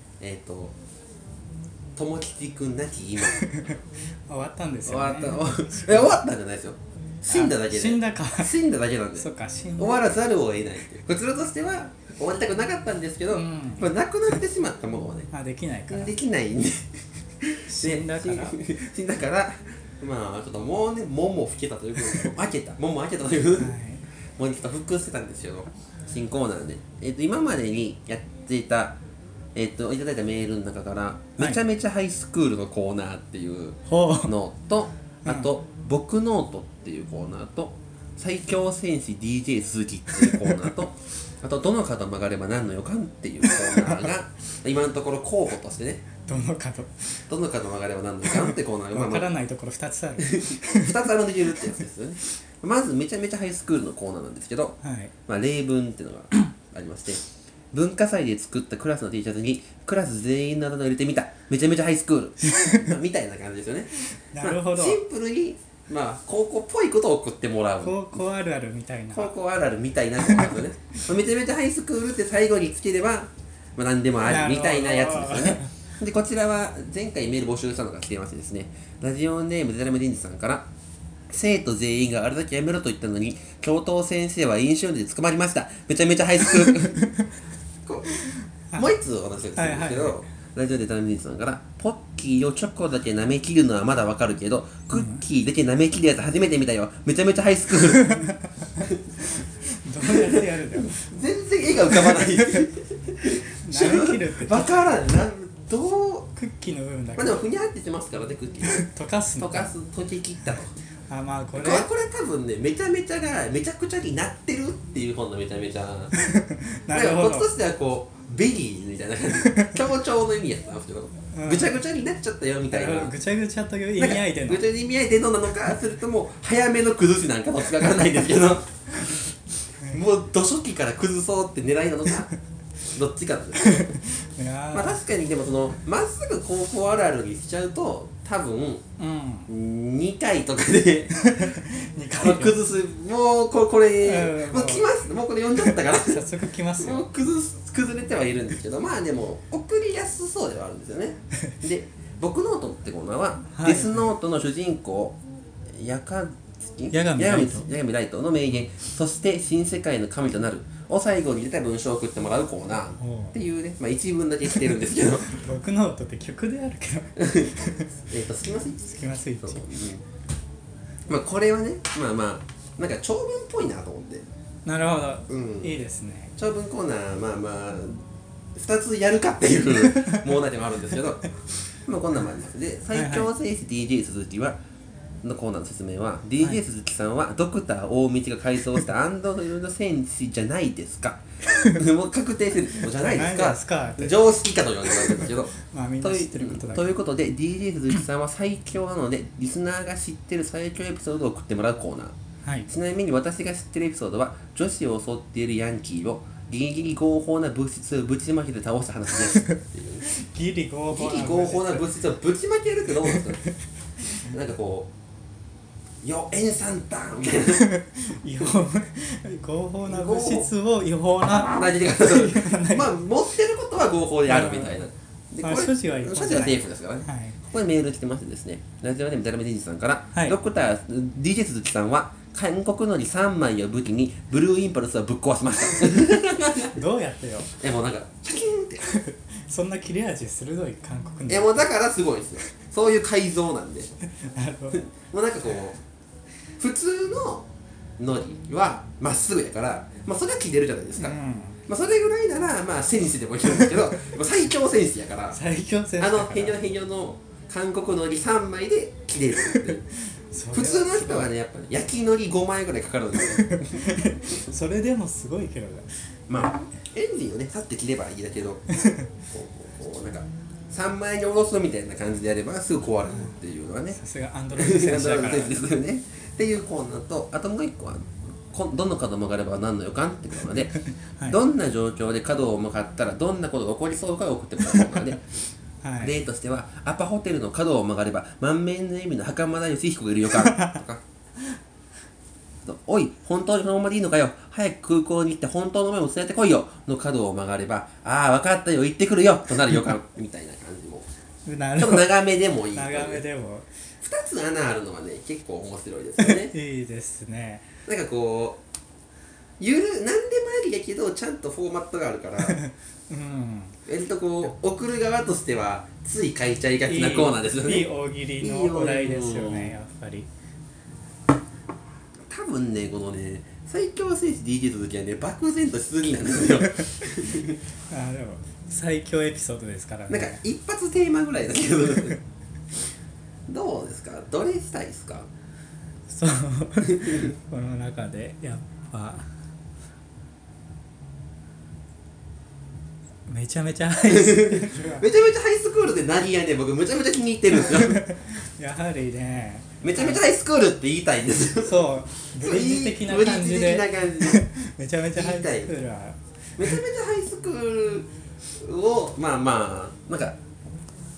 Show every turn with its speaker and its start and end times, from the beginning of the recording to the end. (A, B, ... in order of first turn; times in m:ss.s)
0:00.2-0:00.7 A
0:02.0-0:03.5 A
0:03.3-0:06.1 B
0:04.8-0:15.3 A
0:07.3-0:08.5 B
0:09.2-0:10.0 B
0:13.3-0:13.9 B
0:15.3-0:16.1 B
0:15.9-0:23.7 A
0:17.7-0:18.6 B
0:23.6-0:24.0 B
0:24.4-0:29.0 A
0:29.5-0:46.0 A
0:33.9-0:34.3 B
0:46.3-0:47.2 B
0:47.3-0:49.4 A
0:48.3-0:51.1 B
0:50.2-1:08.2 A
0:54.8-0:55.1 B
1:02.4-1:02.9 B
1:04.3-1:05.0 B
1:07.8-1:09.3 B
1:09.1-1:20.7 A
1:10.2-1:10.6 B
1:14.2-1:15.7 B
1:21.3-1:27.1 A
1:28.1-1:28.9 B
1:28.7-1:39.0 A
1:29.6-1:30.2 B
1:34.9-1:35.2 B
1:39.2-1:41.0 B
1:40.1-1:46.3 A
1:41.9-1:42.6 B
1:43.5-1:44.8 B
1:46.3-1:47.4 B
1:47.2-1:48.9 A
1:48.6-1:49.7 B
1:49.4-1:50.7 A
1:51.1-1:51.9 B
1:51.5-1:56.1 A
1:56.1-1:57.5 B
1:56.9-2:03.1 A
1:59.5-1:59.8 B
2:01.3-2:01.8 B
2:02.7-2:04.6 B
2:04.0-2:12.3 A
2:12.9-2:14.0 A
2:13.6-2:15.0 B
2:14.7-2:18.8 A
2:19.0-2:19.5 B
2:19.5-2:21.5 A
2:21.1-2:22.6 B
2:22.2-2:26.2 A
2:24.0-2:24.8 B
2:25.6-2:27.0 B
2:26.8-2:35.2 A
2:33.5-2:34.1 B
2:35.7-2:45.3 A
2:36.9-2:37.7 B
2:43.0-2:43.4 B
2:45.3-2:48.0 B
2:47.2-2:47.5 A
2:48.0-2:50.0 A
2:48.9-2:49.6 B
2:51.1-2:54.2 A
2:54.6-2:56.3 B
2:55.3-2:55.7 A
2:56.4-2:58.0 A
2:58.6-3:01.2 A
3:01.8-3:04.6 A
3:02.9-3:03.3 B
3:05.2-3:22.1 A
3:11.5-3:11.8 B
3:13.0-3:14.2 B
3:15.0-3:16.9 B
3:22.4-3:22.7 B
3:22.7-3:30.1 A
3:30.1-3:31.8 B
3:30.9-3:33.4 A
3:34.2-3:34.9 A
3:36.0-3:37.7 A
3:37.5-3:42.9 B
3:39.8-3:40.5 A
3:41.5-3:56.7 A
3:44.3-3:44.8 B
3:45.4-3:47.4 B
3:56.7-3:57.5 B
3:57.6-3:58.9 A
3:58.8-4:01.5 B
4:01.3-4:03.9 A
4:04.0-4:04.8 B
4:04.7-4:05.8 A
4:06.6-4:07.5 A
4:08.0-4:15.4 A
4:11.0-4:11.6 B
4:15.3-4:16.6 B
4:16.0-4:19.8 A
4:20.1-4:21.3 B
4:20.5-4:23.9 A
4:23.2-4:25.9 B
4:26.3-4:28.6 A
4:28.7-4:29.0 B
4:29.2-4:34.0 A
4:34.0-4:35.6 B
4:34.5-4:45.2 A
4:45.8-4:46.1 B
4:46.0-4:51.0 A
4:50.4-4:50.7 B
4:52.6-5:01.1 A
5:01.4-5:02.1 B
5:01.8-5:03.2 A
5:02.7-5:03.7 B
5:04.0-5:06.5 A
5:06.2-5:07.6 B
5:07.8-5:08.6 A
5:09.6-5:12.6 A
5:12.4-5:13.8 B
5:13.8-5:19.7 A
5:16.9-5:20.3 B
5:22.3-5:27.6 A
5:27.9-5:30.4 B
5:30.1-5:32.2 A
5:33.5-5:35.3 A
5:36.1-5:39.3 B
5:43.3-5:45.1 B
5:44.1-5:48.1 A
5:47.5-5:50.2 B
5:49.8-5:51.8 A
5:51.6-5:56.8 B
5:52.3-5:54.4 A
5:55.1-5:55.7 A
5:56.6-6:00.4 A